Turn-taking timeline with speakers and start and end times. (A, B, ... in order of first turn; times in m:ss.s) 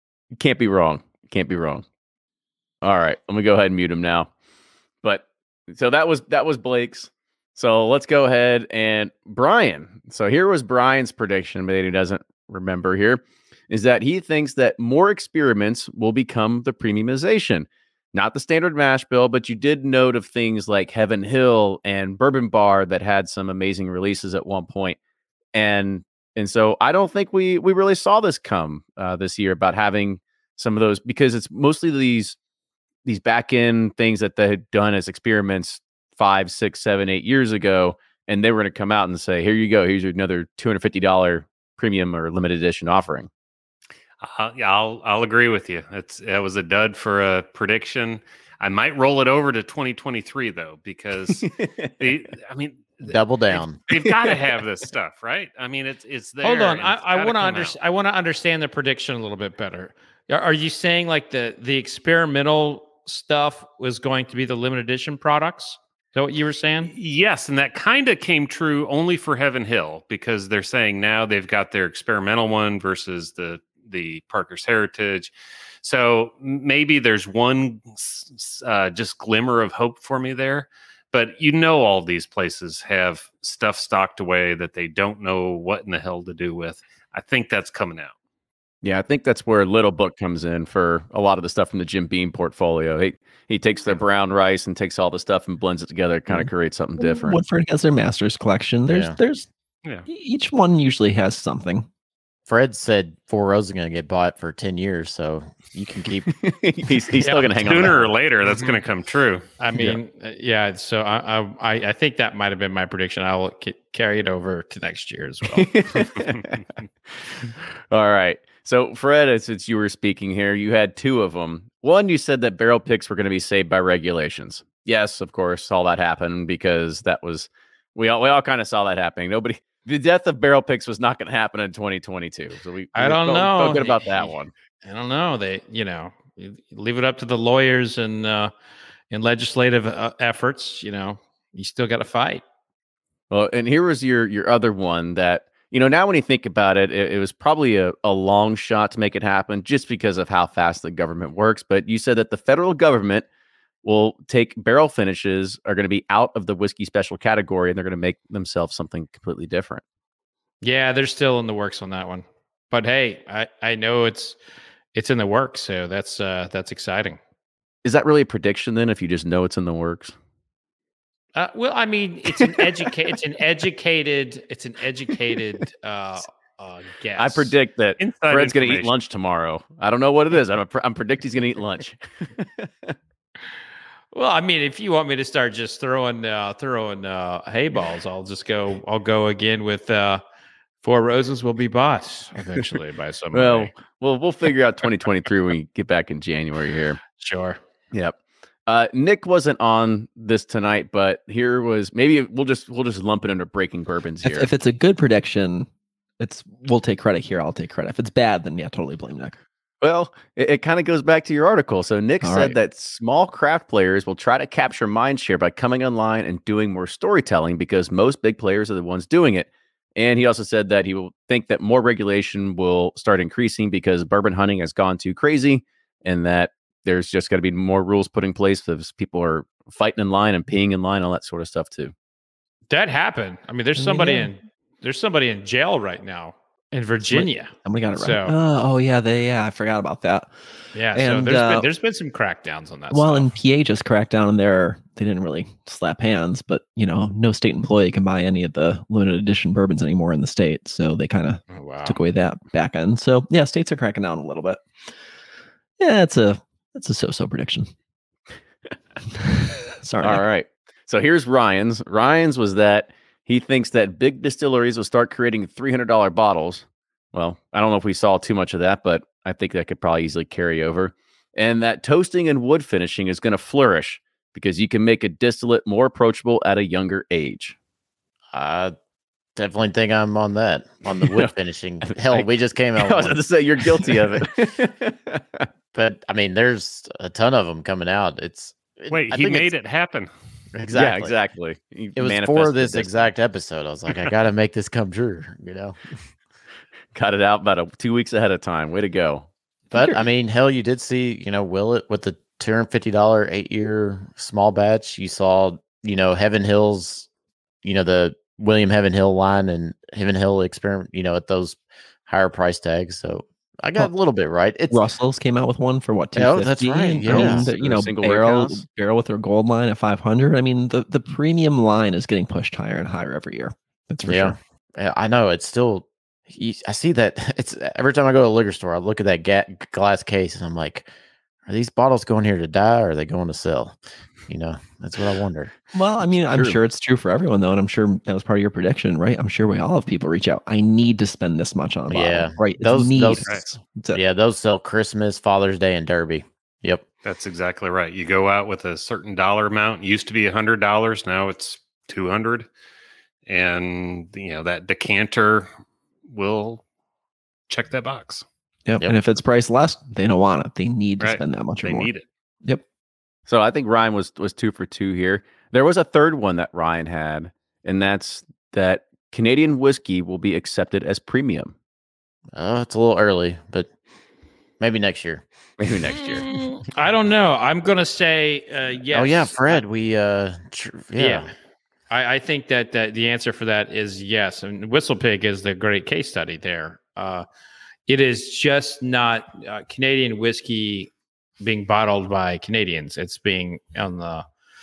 0:00.4-0:01.8 A
0:02.8-0:04.3 A
0:05.0-0:25.0 A
0:25.5-0:32.4 A
0:33.0-0:43.3 A
0:44.2-0:57.8 B
0:51.3-0:52.0 A
0:53.0-0:53.8 C
0:53.9-0:54.4 A
0:56.4-1:06.9 D
1:06.8-1:28.1 B
1:28.8-1:37.4 A
1:36.3-1:39.5 E
1:38.9-1:39.2 C
1:40.1-1:41.9 E
1:42.5-1:46.3 C
1:46.3-1:48.1 A
1:47.2-1:47.6 D
1:47.6-1:49.5 B
1:48.4-1:48.8 D
1:49.6-1:55.7 D
1:55.5-2:14.5 A
1:56.2-1:56.4 B
2:13.0-2:18.5 D
2:19.1-2:22.4 D
2:23.3-2:33.3 A
2:33.8-2:39.8 A
2:40.6-2:44.4 D
2:44.9-2:47.2 D
2:47.8-2:50.1 A
2:51.4-2:57.5 D
2:57.2-3:03.0 A
2:58.0-2:58.9 B
3:04.1-3:10.2 D
3:10.8-3:13.7 D
3:13.3-3:17.0 A
3:17.2-3:17.6 D
3:18.7-3:24.5 A
3:24.2-3:25.7 E
3:26.2-3:29.4 E
3:29.8-3:51.9 A
3:32.2-3:32.6 E
3:52.7-3:58.4 D
3:53.8-3:54.3 E
3:57.0-4:00.3 E
4:00.7-4:03.3 D
4:00.9-4:01.7 E
4:02.9-4:14.6 E
4:11.5-4:12.0 D
4:15.8-4:17.7 E
4:19.1-4:20.2 E
4:20.0-4:37.6 A
4:38.3-4:38.7 C
4:39.4-4:43.2 C
4:41.0-4:41.3 A
4:41.9-4:45.5 A
4:45.7-4:49.5 C
4:48.9-4:50.1 B
4:50.5-4:51.2 C
4:50.7-4:53.1 A
4:52.0-4:55.8 C
4:56.9-4:59.3 A
4:59.7-5:07.1 C
4:59.7-5:00.0 E
5:07.6-5:14.8 C
5:14.7-5:24.4 E
5:16.2-5:17.5 C
5:17.0-5:18.6 A
5:24.0-5:30.9 C
5:31.5-5:33.8 C
5:34.3-5:35.5 C
5:35.7-5:44.0 E
5:36.3-5:36.6 A
5:41.9-5:43.3 C
5:43.9-5:46.8 C
5:47.0-5:52.5 B
5:53.3-5:55.5 B
5:56.0-5:56.6 B
5:57.5-5:58.2 B
5:58.7-6:01.9 E
6:01.0-6:02.0 B
6:03.3-6:11.5 A
6:12.4-6:13.7 C
6:14.6-6:15.3 C
6:15.6-6:16.3 A
6:16.0-6:19.6 D
6:18.9-6:21.3 C
6:21.0-6:21.3 D
6:21.9-6:27.3 D
6:27.9-6:34.3 D